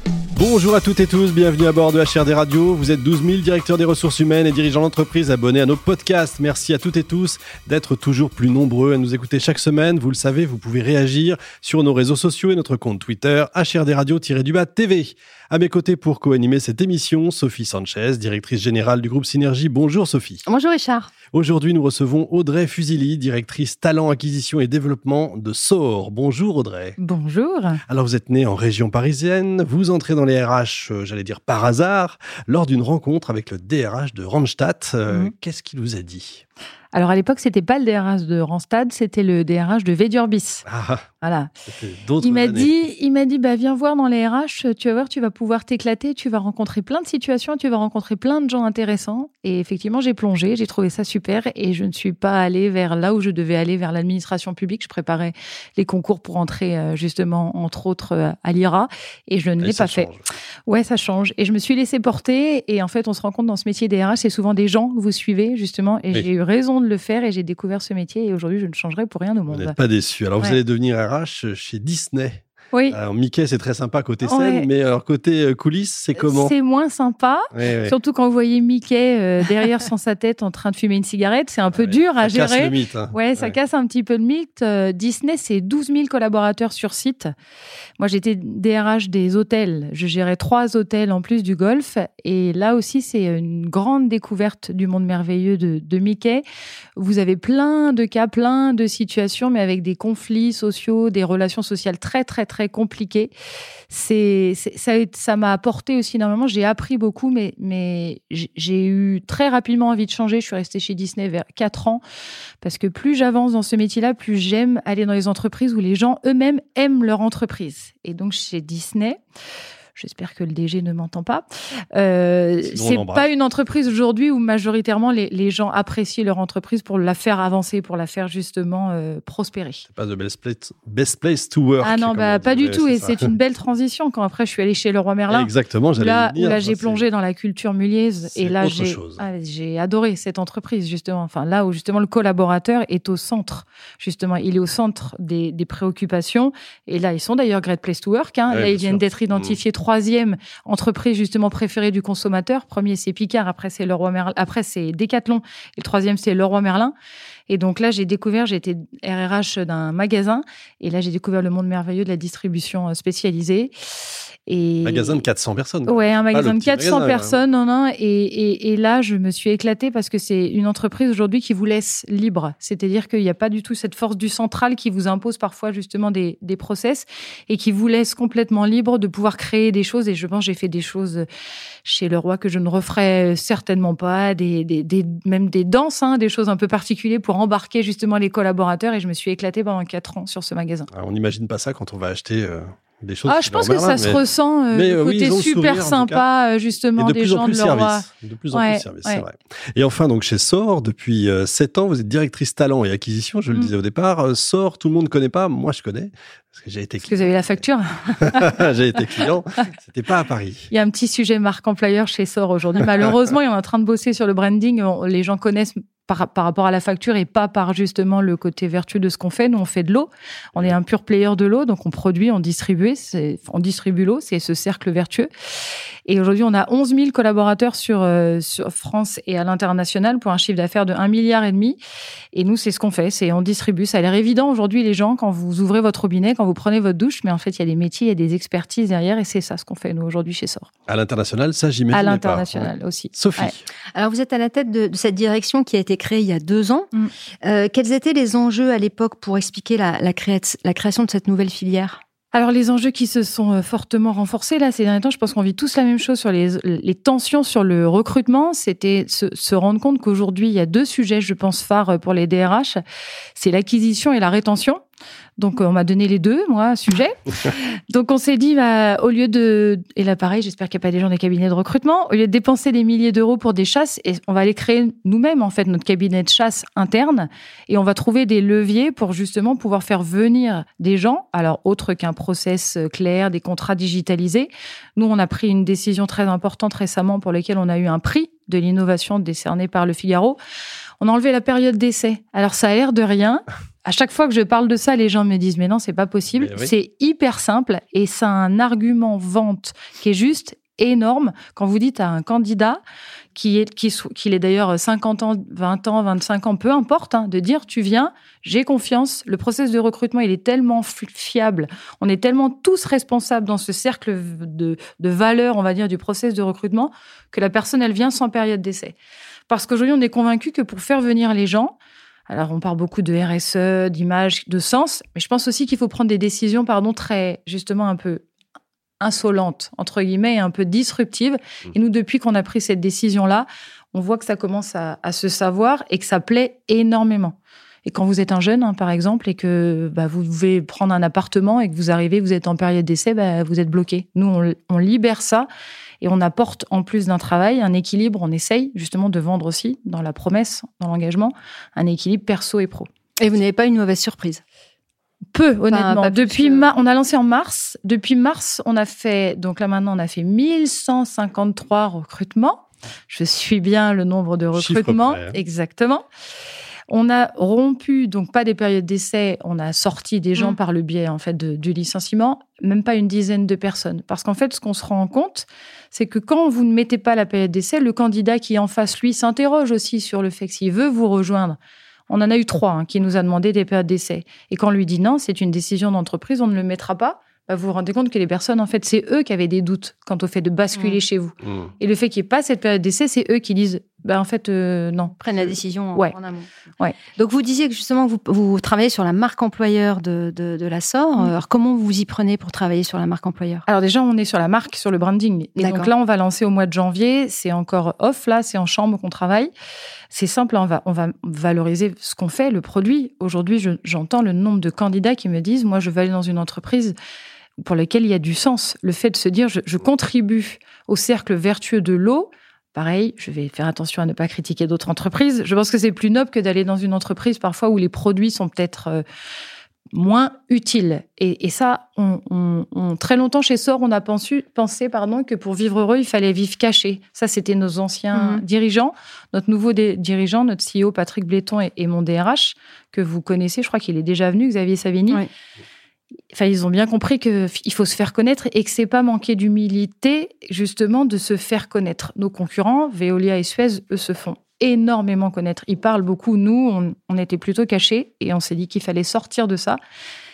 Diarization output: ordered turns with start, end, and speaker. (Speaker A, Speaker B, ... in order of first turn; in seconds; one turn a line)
Speaker A: 0.3-20.4
Speaker B: 20.4-21.1
Speaker A: 21.3-27.0
Speaker C: 27.0-27.8
Speaker A: 27.9-36.4
Speaker C: 36.9-40.6
Speaker A: 40.6-41.0
Speaker C: 41.2-41.5
Speaker A: 41.7-42.7
Speaker C: 42.2-60.1
Speaker A: 59.6-60.2
Speaker C: 60.6-69.8
Speaker A: 69.5-76.5
Speaker C: 72.7-73.0
Speaker C: 74.2-74.7
Speaker C: 76.2-87.3
Speaker A: 77.5-77.9
Speaker A: 81.7-83.5
Speaker C: 88.0-96.4
Speaker C: 97.0-103.3
Speaker C: 103.9-112.0
Speaker C: 112.6-119.2
Speaker C: 120.0-129.8
Speaker A: 122.6-123.3
Speaker A: 129.9-133.3
Speaker C: 131.8-156.9
Speaker A: 135.3-137.0
Speaker A: 138.3-139.2
Speaker A: 148.5-149.6
Speaker C: 157.5-163.7
Speaker C: 164.5-165.2
Speaker A: 164.8-167.4
Speaker C: 165.8-181.3
Speaker C: 181.8-190.9
Speaker A: 190.9-196.2
Speaker C: 193.2-199.2
Speaker A: 197.0-207.4
Speaker C: 207.1-208.7
Speaker A: 208.2-210.7
Speaker C: 210.7-225.3
Speaker C: 226.1-231.8
Speaker C: 232.3-240.7
Speaker A: 240.9-243.6
Speaker C: 241.9-243.5
Speaker B: 243.9-246.9
Speaker B: 247.4-252.0
Speaker C: 252.3-262.8
Speaker C: 263.4-264.8
Speaker C: 265.4-290.4
Speaker C: 291.0-302.8
Speaker A: 296.3-296.7
Speaker C: 303.3-318.9
Speaker C: 319.5-321.8
Speaker C: 322.3-328.2
Speaker C: 329.0-345.5
Speaker C: 346.0-352.9
Speaker B: 353.2-354.4
Speaker C: 355.3-366.1
Speaker B: 355.7-356.7
Speaker A: 364.5-365.4
Speaker C: 366.9-381.6
Speaker C: 382.1-396.1
Speaker A: 391.4-391.7
Speaker B: 395.2-396.5
Speaker B: 397.1-403.6
Speaker C: 403.7-409.5
Speaker B: 405.6-405.9
Speaker C: 410.1-416.9
Speaker C: 417.6-429.0
Speaker C: 429.9-445.2
Speaker B: 438.1-438.4
Speaker C: 446.3-459.8